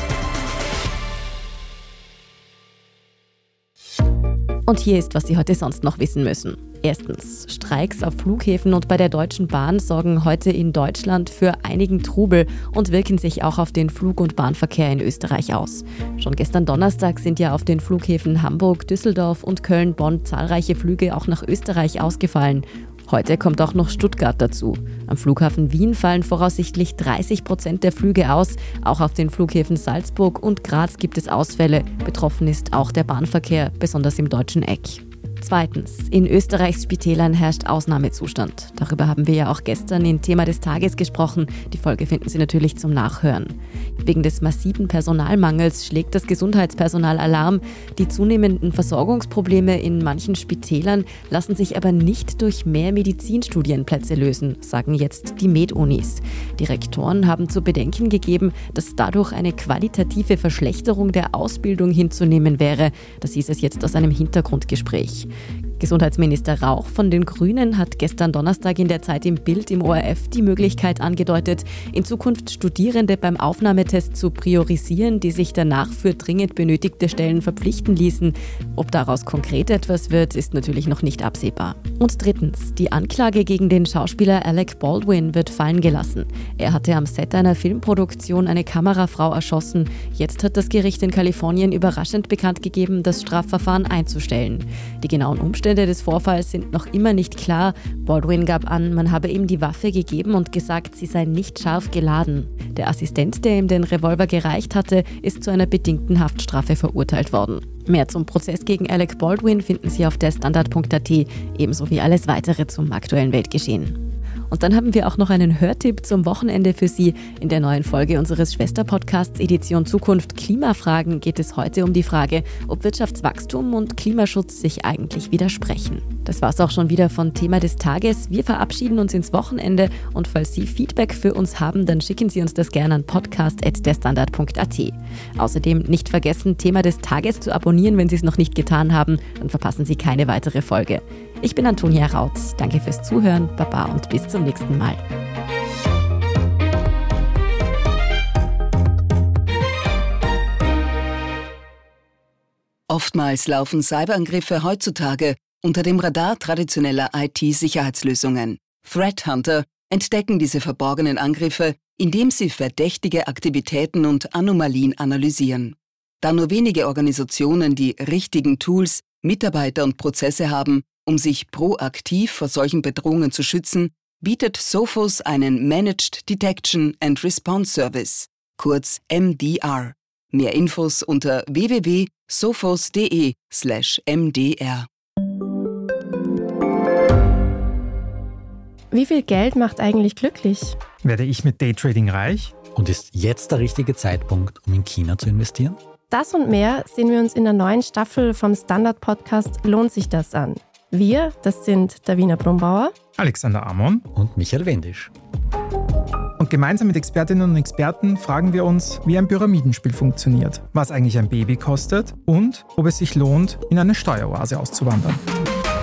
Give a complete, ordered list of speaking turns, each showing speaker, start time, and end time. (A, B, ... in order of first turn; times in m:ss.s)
0:04.7-1:54.0 A
1:54.5-2:25.0 A
2:32.9-3:04.9 B
3:08.9-3:10.8 C
3:11.0-3:12.5 D
3:12.7-3:15.8 E
3:16.1-3:22.9 C
3:23.2-3:24.0 D
3:24.1-3:25.1 E
3:26.4-3:35.2 D